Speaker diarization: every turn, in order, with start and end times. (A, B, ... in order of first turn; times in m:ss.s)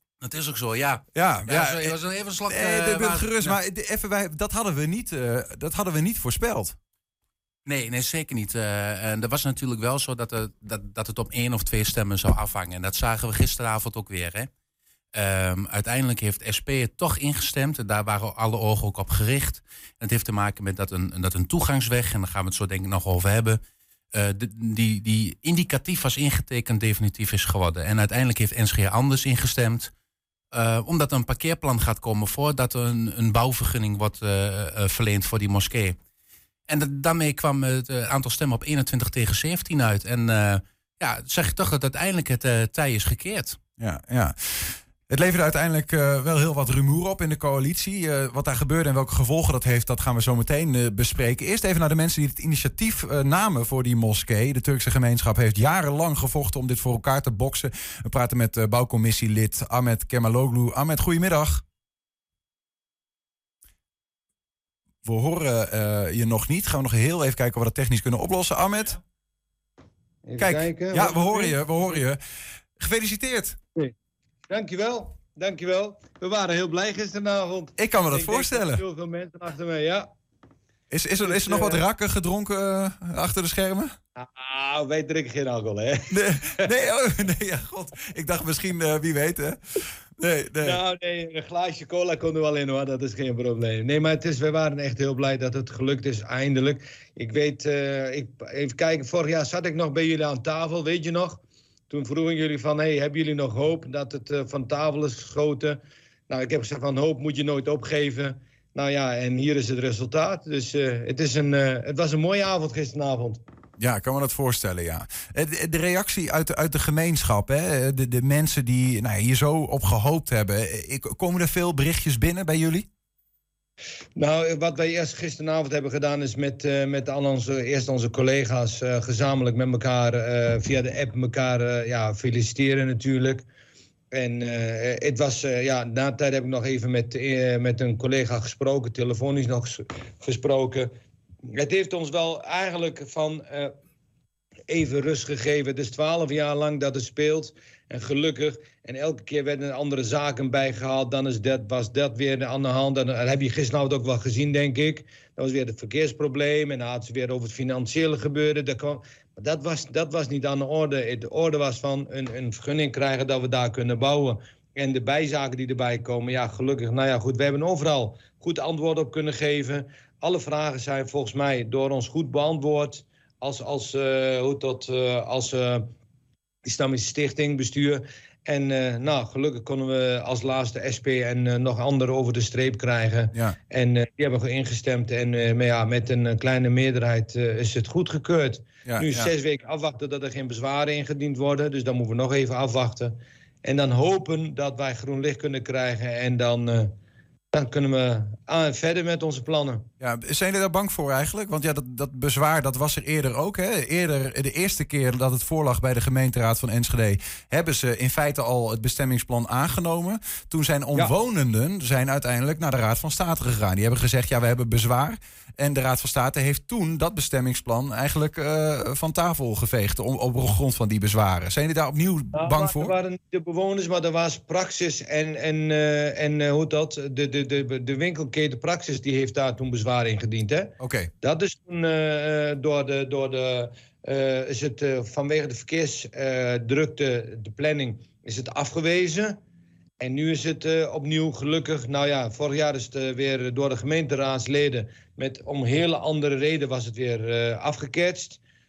0:00.2-0:03.6 A
0:01.1-0:02.0 B
0:02.5-0:06.8 B
0:07.7-0:14.5 A
0:15.2-0:23.6 A
0:24.1-0:29.9 A
0:30.5-0:36.0 A
0:36.7-0:43.6 A
0:43.8-1:01.6 B
1:05.0-1:09.0 B
1:10.3-1:11.9 C
1:10.4-1:12.2 B
1:12.8-1:13.6 B
1:14.5-1:20.1 C
1:17.8-1:18.8 B
1:20.9-1:24.0 B
1:21.2-1:21.8 C
1:24.2-1:26.7 C
1:26.1-1:30.8 B
1:30.6-1:53.4 C
1:53.8-2:02.9 B
2:04.2-2:13.4 C
2:14.1-2:20.9 C
2:21.5-2:23.7 C
2:24.7-2:55.9 C
2:56.6-3:16.9 C
3:08.9-3:09.3 B
3:17.5-3:19.9 C
3:20.0-3:42.9 B
3:42.3-3:59.4 C
3:50.8-3:51.1 B
4:00.0-4:08.4 C